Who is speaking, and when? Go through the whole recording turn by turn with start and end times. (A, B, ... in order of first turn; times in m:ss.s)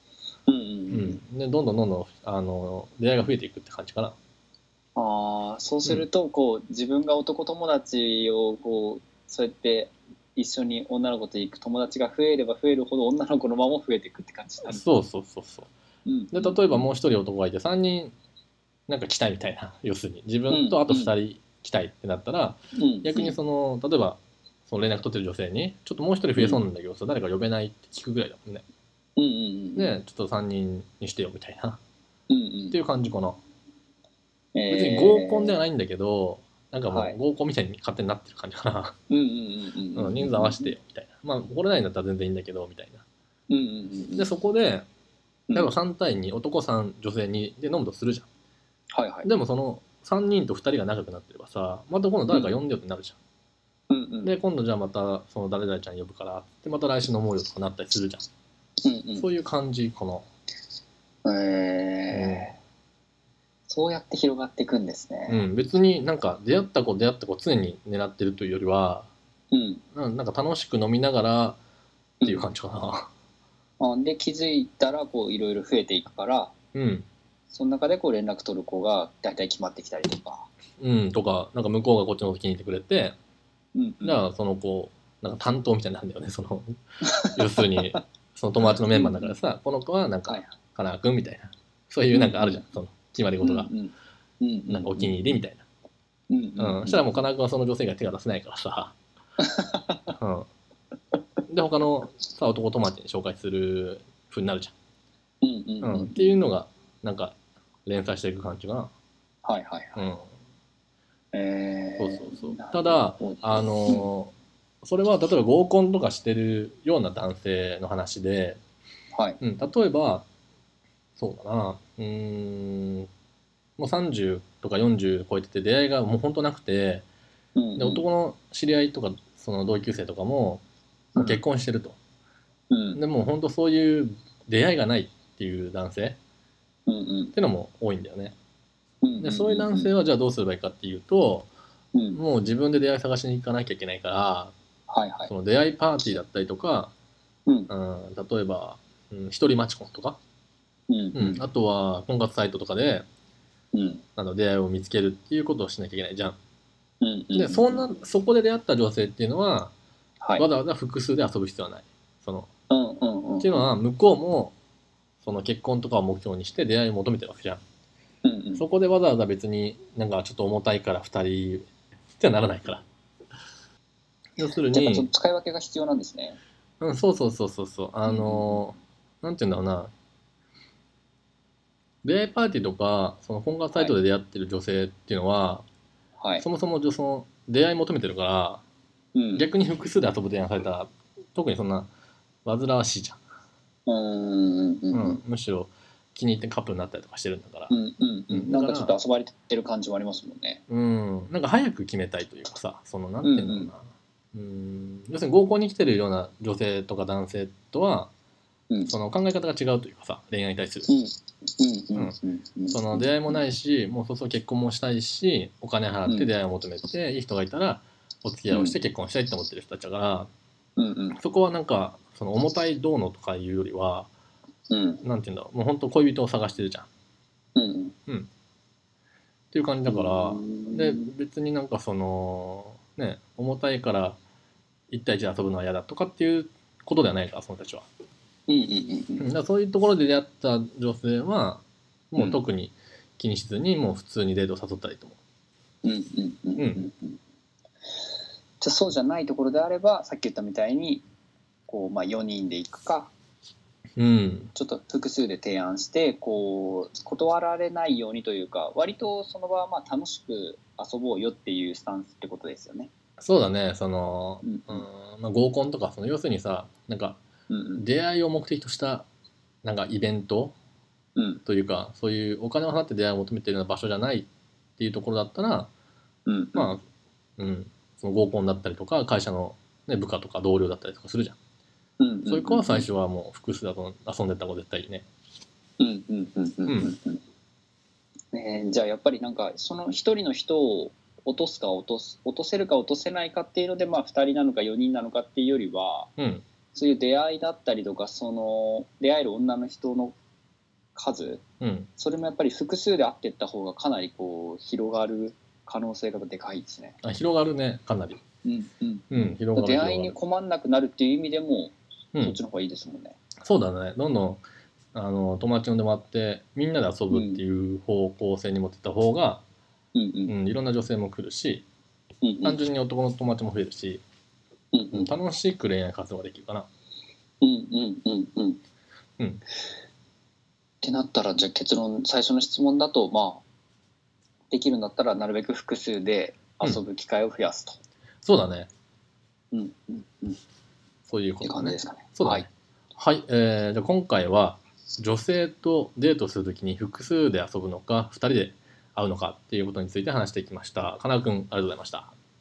0:00.5-0:01.2 A
0:00.9-0:04.2 B
0:05.0-0:14.8 A
0:14.7-0:15.7 B
0:16.1-0:16.9 A
0:16.3-0:18.2 B
0:18.9-0:28.6 B
0:20.5-0:21.1 A
0:22.8-0:23.4 A
0:26.4-0:26.6 A
0:29.2-0:29.9 A
0:29.8-0:31.8 B
0:32.3-0:32.8 A
0:32.7-0:33.4 B
0:34.6-0:35.6 A
0:34.7-0:39.0 B
0:36.9-0:37.2 A
0:39.1-0:40.7 A
0:40.0-0:43.0 B
0:43.5-0:44.3 A
0:44.2-0:44.8 B
0:45.5-0:48.3 B
0:48.9-0:49.3 A
0:49.2-0:53.2 B
0:53.9-0:54.3 A
0:54.2-0:58.2 B
0:58.8-0:59.3 A
0:59.2-1:00.3 B
1:01.2-1:02.5 A
1:02.1-1:02.5 B
1:03.7-1:05.4 A
1:05.3-1:09.1 B
1:09.5-1:09.8 A
1:10.0-1:11.6 B
1:12.2-1:12.5 A
1:12.2-1:13.1 B
1:13.8-1:16.5 A
1:16.7-1:17.1 B
1:17.5-1:20.5 A
1:20.8-1:23.2 B
1:23.8-1:24.2 A
1:24.0-1:33.7 B
1:27.0-1:28.0 A
1:28.6-1:29.4 A
1:32.1-1:32.6 A
1:33.4-1:35.4 A
1:34.7-1:35.6 B
1:36.3-1:37.2 A
1:36.6-1:39.0 B
1:39.4-1:40.1 A
1:40.2-1:40.5 B
1:41.5-1:44.7 B
1:45.4-1:46.4 A
1:45.8-1:48.9 B
1:49.4-1:50.1 A
1:50.0-1:50.3 B
1:51.3-1:54.1 A
1:52.0-1:54.3 B
1:54.8-1:58.6 B
1:59.1-1:59.4 A
1:59.4-2:00.3 B
2:01.2-2:03.1 B
2:03.8-2:07.1 B
2:07.6-2:08.0 A
2:07.8-2:10.6 B
2:11.1-2:12.0 B
2:12.7-2:13.0 A
2:13.0-2:16.2 B
2:16.9-2:17.3 A
2:17.4-2:18.4 B
2:19.0-2:19.9 A
2:19.2-2:21.5 B
2:21.9-2:22.2 A
2:22.1-2:24.5 B
2:24.9-2:25.3 A
2:25.3-2:26.9 B
2:27.7-2:30.2 B
2:30.9-2:31.4 A
2:31.2-2:33.1 B
2:33.7-2:34.0 A
2:34.2-2:36.4 B
2:37.0-2:37.8 A
2:37.3-2:39.7 B
2:40.4-2:42.5 B
2:42.7-2:43.7 A
2:43.4-2:44.5 B
2:45.2-2:47.6 B
2:48.2-2:48.6 A
2:48.6-2:52.8 B
2:54.4-2:55.1 B
2:54.7-2:56.4 A
2:56.8-2:59.9 B
2:58.1-2:58.6 A
3:02.0-3:05.7 B
3:06.2-3:06.4 A
3:06.4-3:08.6 B
3:09.2-3:09.5 A
3:09.4-3:11.9 B
3:12.4-3:13.2 B
3:13.9-3:15.2 A
3:14.9-3:17.7 B
3:17.7-3:20.6 A
3:18.3-3:19.0 B
3:20.7-3:28.1 B
3:23.2-3:23.7 A
3:28.9-3:30.9 B
3:30.9-3:33.1 A
3:32.7-3:40.3 B
3:38.5-3:38.8 A
3:40.8-3:41.2 A
3:41.2-3:44.1 B
3:44.7-3:45.0 A
3:45.0-3:46.9 B
3:47.6-3:48.0 A
3:49.5-3:54.2 B
3:49.9-3:51.1 A
3:54.9-3:57.9 B
3:58.5-3:59.2 A
3:59.2-4:05.2 B
4:05.8-4:07.2 A
4:06.6-4:06.8 B
4:08.6-4:11.0 A
4:11.7-4:13.1 A
4:14.0-4:14.5 B
4:14.6-4:22.9 A
4:23.2-4:27.2 B
4:24.4-4:24.9 A
4:27.5-4:27.8 A
4:27.8-4:29.1 B
4:29.6-4:30.6 B
4:31.2-4:31.4 A
4:31.5-4:35.7 B
4:36.3-4:36.7 A
4:36.6-4:36.8 B
4:37.4-4:41.4 B
4:42.0-4:42.9 A
4:42.3-4:45.1 B
4:45.8-4:47.2 A
4:46.7-4:46.9 B
4:48.3-4:56.1 A
4:56.2-4:56.4 B
4:56.7-5:00.2 A
5:01.0-5:01.4 A
5:01.6-5:01.9 B
5:02.0-5:07.0 A
5:07.0-5:08.2 B
5:08.4-5:13.2 A
5:09.1-5:10.2 B
5:13.4-5:14.4 B
5:14.9-5:19.4 B
5:17.1-5:17.4 A
5:20.0-5:20.4 A
5:20.3-5:21.7 B
5:22.2-5:22.6 A
5:22.4-5:24.0 B
5:24.7-5:25.1 A
5:24.9-5:26.7 B
5:27.4-5:28.6 A
5:30.8-5:33.4 A
5:34.5-5:37.8 A
5:38.2-5:38.7 B
5:39.5-5:40.4 A
5:41.1-5:52.1 B
5:41.4-5:42.5 A